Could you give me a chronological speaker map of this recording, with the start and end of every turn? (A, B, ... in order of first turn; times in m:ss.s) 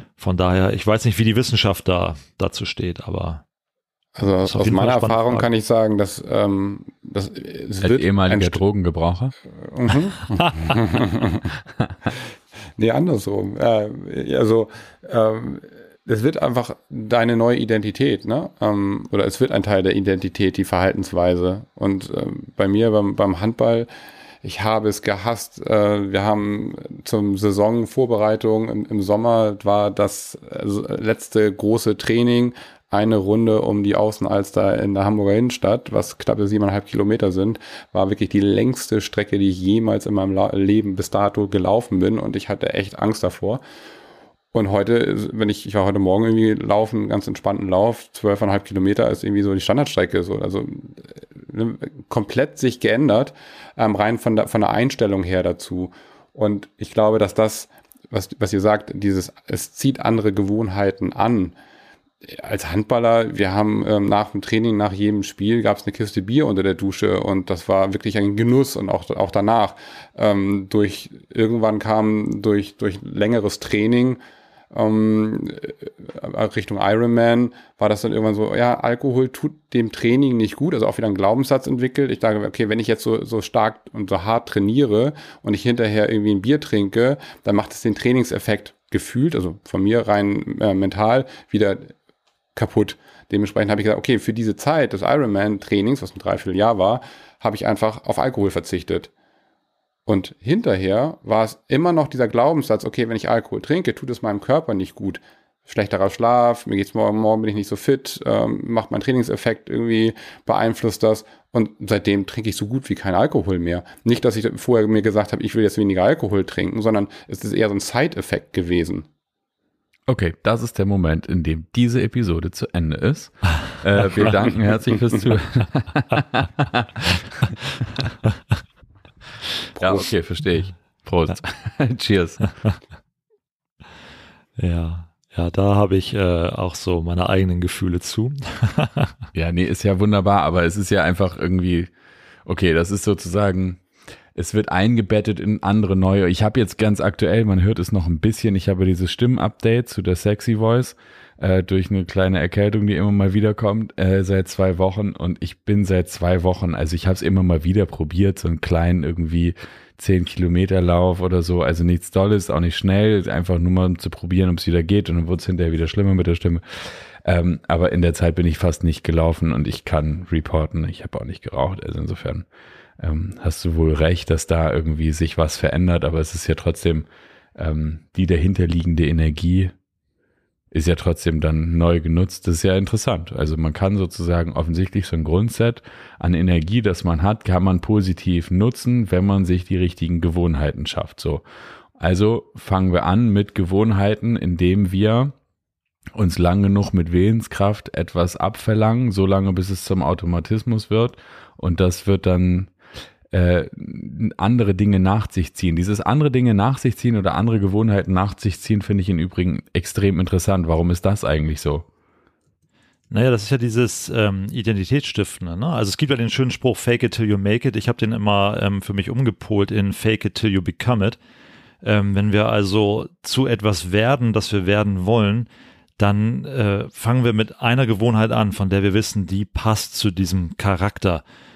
0:00.2-0:03.4 A
0:04.2-0:08.6 B
0:04.4-0:05.5 A
0:07.8-0:09.3 C
0:09.6-0:11.5 B
0:10.4-0:10.7 A
0:12.8-0:23.9 B
0:24.4-0:43.6 B
0:44.5-1:01.5 B
1:02.2-1:14.2 B
1:14.7-1:31.9 B
1:32.5-1:39.1 B
1:40.1-1:59.1 B
2:00.1-2:07.3 C
2:09.8-2:12.4 C
2:14.6-2:19.1 A
2:19.3-2:21.9 C
2:22.4-2:23.8 C
2:24.3-2:46.6 C
2:47.2-2:52.5 C
2:53.0-2:59.7 C
3:00.7-3:11.4 C
3:12.0-3:15.3 C
3:16.2-3:22.7 C
3:23.3-3:31.9 C
3:33.1-3:41.2 A
3:41.8-3:45.5 A
3:46.0-3:51.2 A